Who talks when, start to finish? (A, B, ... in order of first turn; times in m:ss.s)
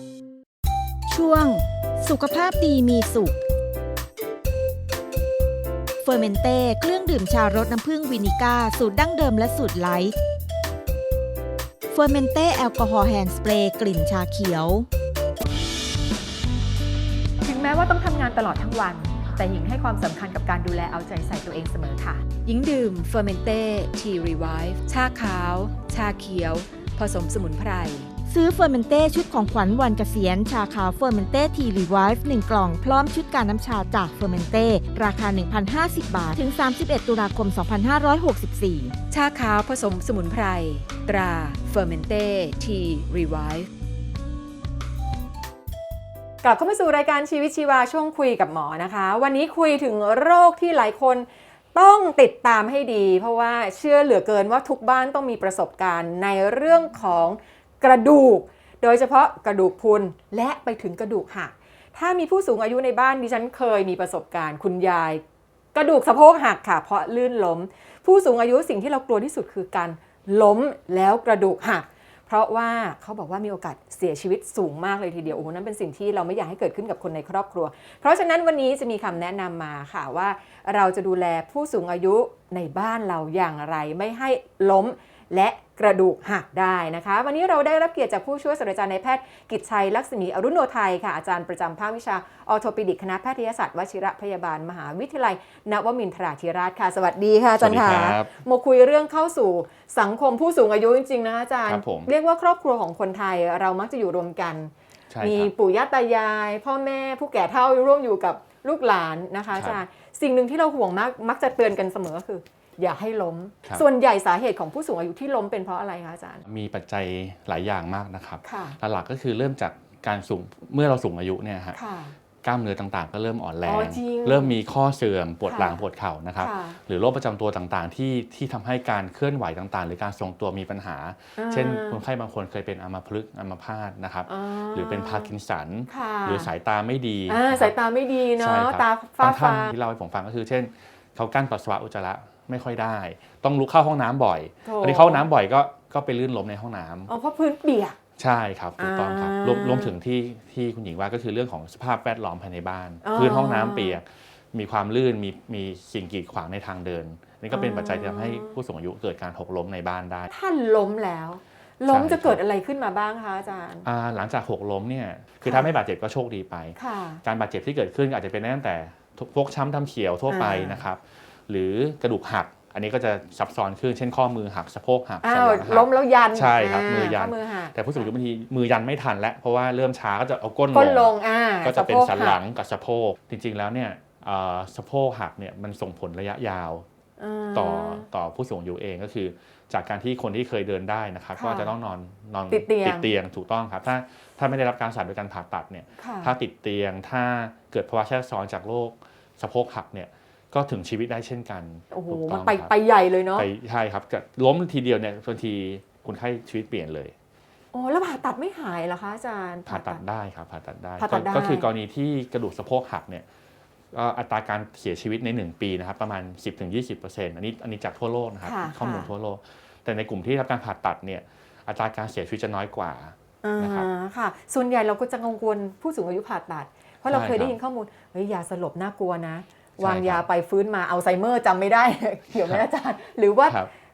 0:01.1-0:03.4 A
0:06.0-0:10.1 A
0:11.9-0:14.9 A
0:17.4-0:28.1 B
0:28.3-0:38.9 A
0:39.1-0:43.7 B
0:46.4-1:05.2 B
1:05.7-1:56.4 B
1:37.6-1:38.4 C
1:41.7-1:42.1 C
1:45.1-1:45.5 C
1:49.5-1:49.8 C
1:56.4-2:01.8 C
1:58.4-1:58.8 B
2:01.7-2:02.2 B
2:02.4-2:17.8 C
2:03.6-2:04.6 B
2:05.5-2:05.8 B
2:06.4-2:06.8 B
2:11.4-2:12.0 B
2:14.3-2:15.3 B
2:15.9-2:16.5 B
2:17.3-2:19.7 B
2:18.3-2:27.1 C
2:24.6-2:25.2 B
2:27.1-2:28.0 B
2:28.2-2:40.3 C
2:28.8-2:29.9 B
2:33.0-2:34.0 B
2:37.5-2:38.6 B
2:40.3-2:43.9 B
2:41.9-2:42.4 C
2:43.8-3:06.8 C
2:45.4-2:45.7 B
2:46.8-2:47.2 B
2:50.3-2:50.8 B
2:55.2-2:57.8 B
3:00.7-3:02.4 B
3:07.2-3:08.1 B
3:07.5-3:22.7 C
3:11.4-3:11.7 B
3:12.5-3:13.1 B
3:16.0-3:16.3 B
3:21.9-3:23.5 B
3:23.3-3:27.1 C
3:27.7-3:30.0 B
3:29.7-3:33.2 C
3:31.0-3:31.7 B
3:33.9-3:43.9 C
3:38.4-3:39.1 B
3:43.4-3:53.6 B
3:47.1-3:47.6 C
3:49.8-3:50.3 C
3:52.4-3:52.6 C
3:53.5-3:53.7 C